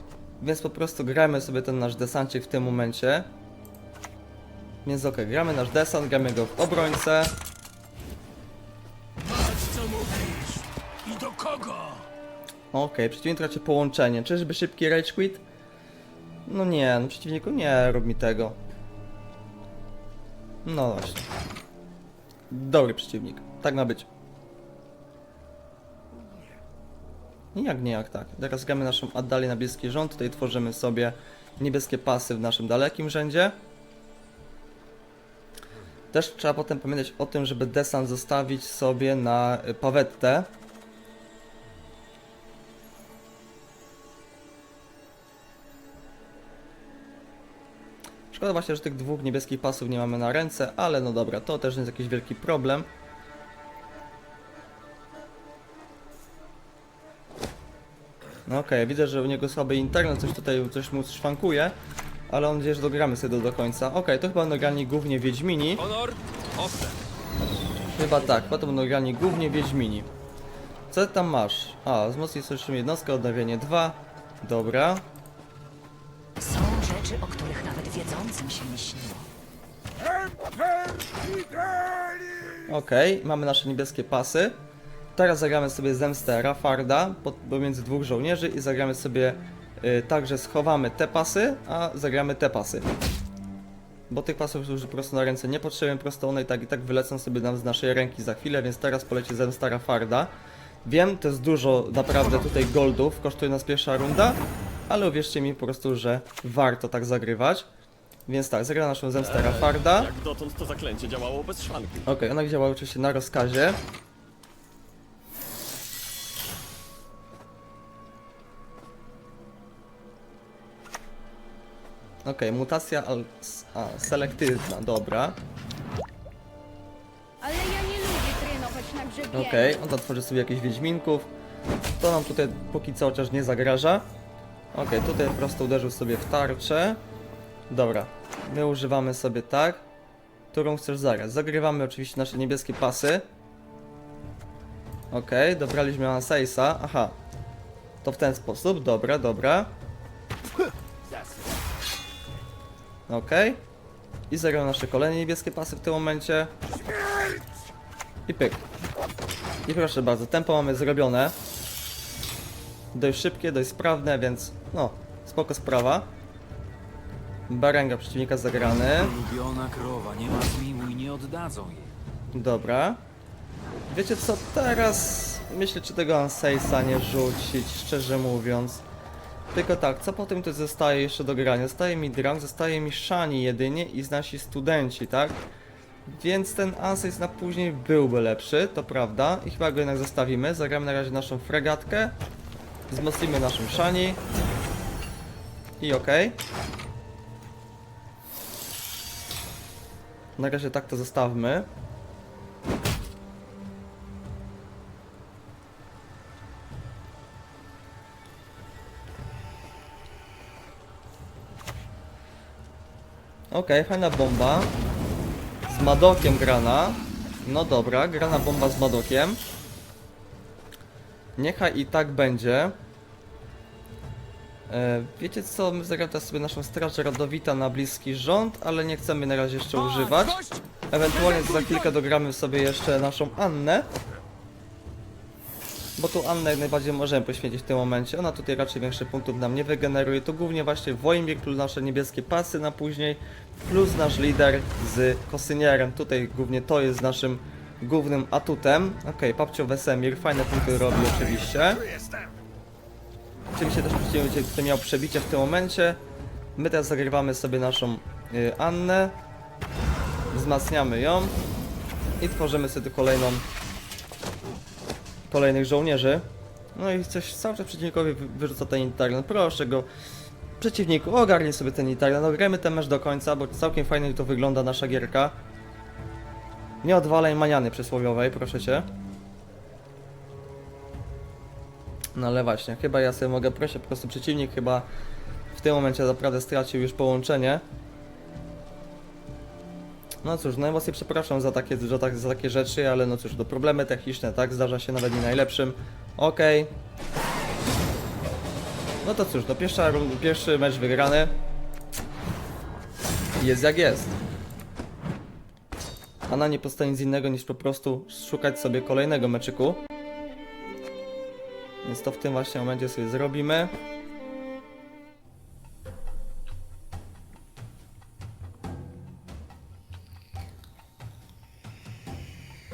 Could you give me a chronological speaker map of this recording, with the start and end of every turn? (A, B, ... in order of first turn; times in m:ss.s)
0:00.4-0:03.3 A
0:04.8-0:07.3 A
0:09.3-0:12.1 B
0:12.7-0:15.4 A
0:16.5-0:18.6 A
0:20.6-0:21.3 A
0:22.5-0:24.1 A
0:27.5-0:33.6 A
0:36.1-0:40.5 A
0:48.3-0:52.9 A
0:58.5-1:01.8 A
1:02.3-1:05.8 A
1:05.8-1:07.0 B
1:08.0-1:10.1 A
1:10.9-1:15.0 A
1:16.4-1:19.2 C
1:22.7-1:24.6 A
1:25.2-1:32.9 A
1:34.1-1:40.3 A
1:40.8-1:47.7 A
1:48.3-1:50.1 A
1:49.2-1:52.1 D
1:52.1-1:53.8 A
2:02.2-2:05.4 A
2:07.4-2:09.8 E
2:09.3-2:11.3 A
2:12.0-2:14.1 A
2:14.7-2:17.0 A
2:17.7-2:19.8 A
2:20.5-2:23.2 A
2:25.1-2:27.2 A
2:28.0-2:29.7 A
2:31.0-2:31.5 B
2:33.1-2:33.6 A
2:34.3-2:36.5 A
2:38.3-2:38.6 A
2:39.7-2:41.4 A
2:42.9-2:46.1 A
2:47.5-2:49.1 A
2:48.8-2:51.9 B
2:52.3-2:53.0 A
2:53.9-2:58.8 A
2:59.5-3:05.4 A
3:06.1-3:12.2 A
3:12.9-3:14.2 A
3:15.8-3:16.4 A
3:20.4-3:21.7 A
3:33.5-3:34.7 A
3:35.7-3:39.4 A
3:41.4-3:42.8 A
3:44.7-3:53.9 A
3:49.8-3:50.6 B
3:56.0-4:11.8 A
4:13.5-4:16.0 A
4:16.6-4:19.2 A
4:20.3-4:21.4 A
4:22.2-4:23.4 A
4:25.3-4:29.9 A
4:30.6-4:35.4 A
4:36.8-4:38.9 A
4:42.2-4:44.9 A
4:45.5-4:47.6 A
4:50.2-4:56.7 A
4:59.0-5:01.3 A
5:03.4-5:04.2 A
5:06.3-5:09.8 A
5:11.8-5:13.7 A